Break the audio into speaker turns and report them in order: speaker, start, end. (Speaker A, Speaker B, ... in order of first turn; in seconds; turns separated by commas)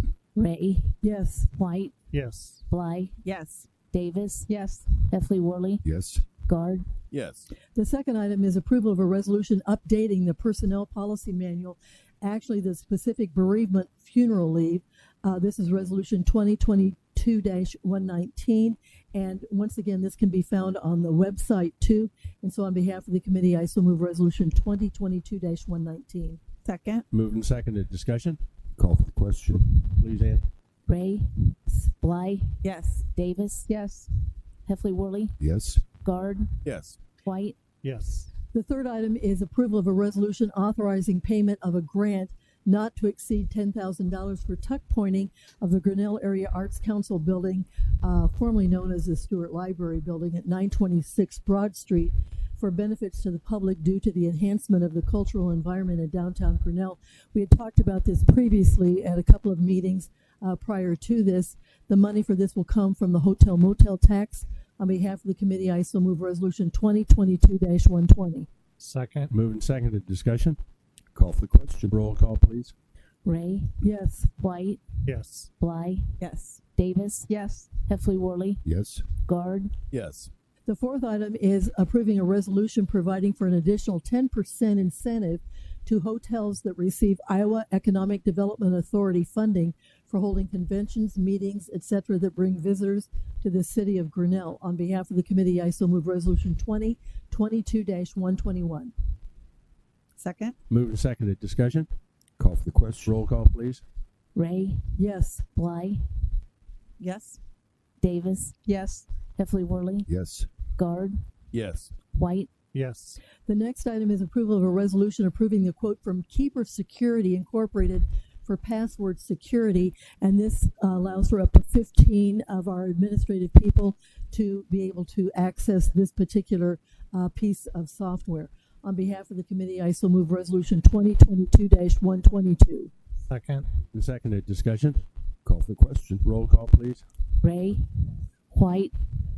Speaker A: 0.3-1.0, Speaker B: 1.0-1.5, Speaker A: 1.5-2.0, Speaker C: 2.1-2.6, Speaker A: 2.7-3.2, Speaker D: 3.2-3.7, Speaker A: 3.8-5.8, Speaker D: 4.5-4.8, Speaker E: 5.8-6.2, Speaker A: 6.5-6.8, Speaker F: 7.1-7.5, Speaker B: 7.8-26.4, Speaker D: 26.6-27.0, Speaker F: 27.1-28.4, Speaker E: 28.8-29.7, Speaker F: 29.5-30.4, Speaker A: 30.9-33.7, Speaker D: 32.6-33.0, Speaker A: 34.7-36.6, Speaker E: 35.4-35.8, Speaker F: 36.6-37.0, Speaker A: 37.2-37.6, Speaker C: 37.8-38.3, Speaker B: 38.5-68.5, Speaker C: 68.8-69.3, Speaker F: 69.3-70.6, Speaker E: 71.1-72.0, Speaker F: 71.9-72.7, Speaker A: 73.2-73.8, Speaker B: 73.8-74.3, Speaker A: 74.4-74.8, Speaker C: 75.1-75.5, Speaker A: 75.6-76.2, Speaker D: 76.2-76.6, Speaker A: 76.8-78.6, Speaker D: 77.3-77.6, Speaker E: 78.6-79.1, Speaker A: 79.2-79.7, Speaker F: 79.9-80.3, Speaker B: 80.7-98.9, Speaker D: 100.2-100.5, Speaker F: 100.7-101.9, Speaker E: 102.4-103.2, Speaker F: 103.0-103.8, Speaker A: 104.3-104.9, Speaker B: 105.0-105.5, Speaker A: 105.5-106.0, Speaker D: 107.0-107.4, Speaker A: 108.0-108.6, Speaker D: 108.7-109.0, Speaker A: 109.4-110.1, Speaker E: 110.1-110.5, Speaker A: 110.8-111.2, Speaker F: 111.5-111.9, Speaker A: 112.1-112.5, Speaker C: 112.7-113.2, Speaker B: 113.5-132.9, Speaker C: 133.3-133.7, Speaker F: 133.9-135.0, Speaker E: 135.4-136.3, Speaker F: 136.2-137.0, Speaker A: 137.4-138.9